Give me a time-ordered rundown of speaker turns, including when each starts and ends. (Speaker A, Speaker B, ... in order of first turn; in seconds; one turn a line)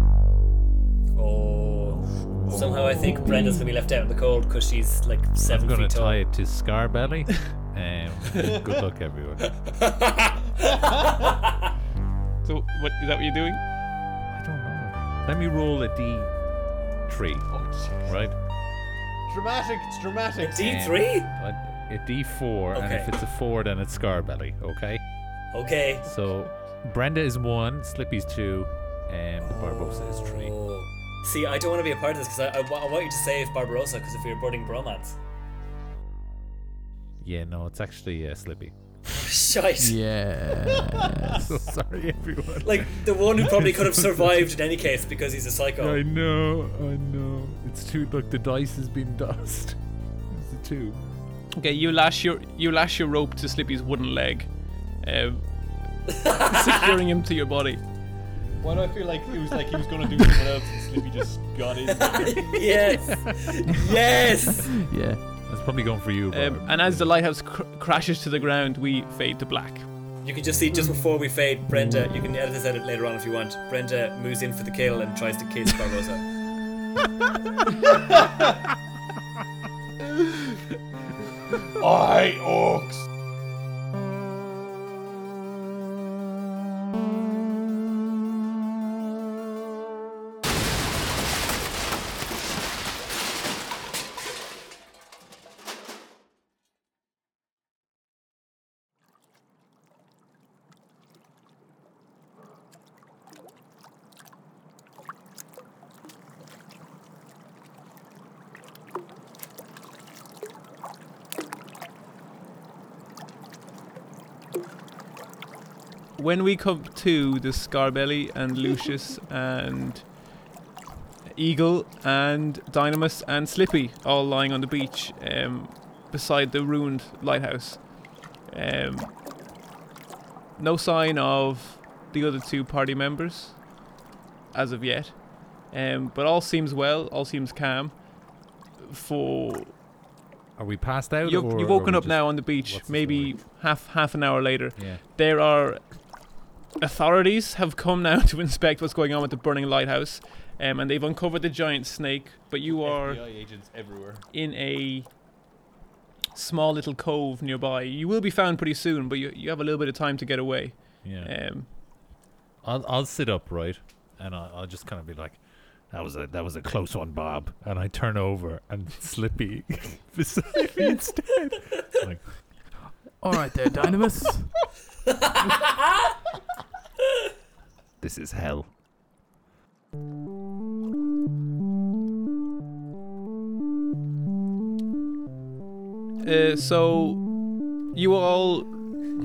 Speaker A: 1.1-6.2
Speaker B: 2.4-3.2
Speaker C: 2.5-3.0
Speaker B: 5.5-9.5
Speaker A: 9.4-11.6
Speaker D: 12.4-13.6
Speaker B: 14.3-16.3
Speaker B: 17.1-17.5
Speaker C: 17.5-18.2
Speaker B: 18.0-18.4
Speaker C: 19.3-20.8
Speaker A: 20.4-21.3
Speaker B: 20.6-25.0
Speaker A: 22.7-23.1
Speaker A: 25.5-26.1
Speaker B: 26.0-30.5
Speaker A: 30.3-35.2
Speaker B: 37.2-39.4
Speaker A: 39.1-40.0
Speaker E: 39.8-41.6
Speaker C: 40.9-41.2
Speaker B: 41.3-44.3
Speaker A: 42.6-46.0
Speaker B: 45.8-49.8
Speaker B: 50.3-51.0
Speaker D: 51.6-54.5
Speaker D: 55.0-55.4
Speaker D: 56.1-57.8
Speaker A: 56.1-56.9
Speaker C: 58.6-62.5
Speaker A: 62.0-64.7
Speaker B: 62.9-63.4
Speaker E: 64.6-65.2
Speaker B: 65.5-67.1
Speaker D: 66.3-69.9
Speaker A: 70.2-76.2
Speaker E: 71.7-72.1
Speaker C: 77.9-78.4
Speaker C: 81.8-83.0
Speaker D: 116.2-120.1
Speaker D: 121.3-129.2
Speaker D: 130.6-133.6
Speaker D: 134.5-138.1
Speaker D: 138.8-139.7
Speaker B: 140.6-143.4
Speaker D: 141.2-146.2
Speaker B: 144.8-145.0
Speaker D: 146.8-153.2
Speaker C: 152.7-154.2
Speaker D: 154.3-155.1
Speaker D: 156.3-161.7
Speaker B: 161.0-161.3
Speaker B: 162.6-172.6
Speaker E: 173.2-174.6
Speaker A: 175.2-175.7
Speaker B: 178.0-178.7
Speaker D: 186.2-187.3
Speaker D: 187.9-188.9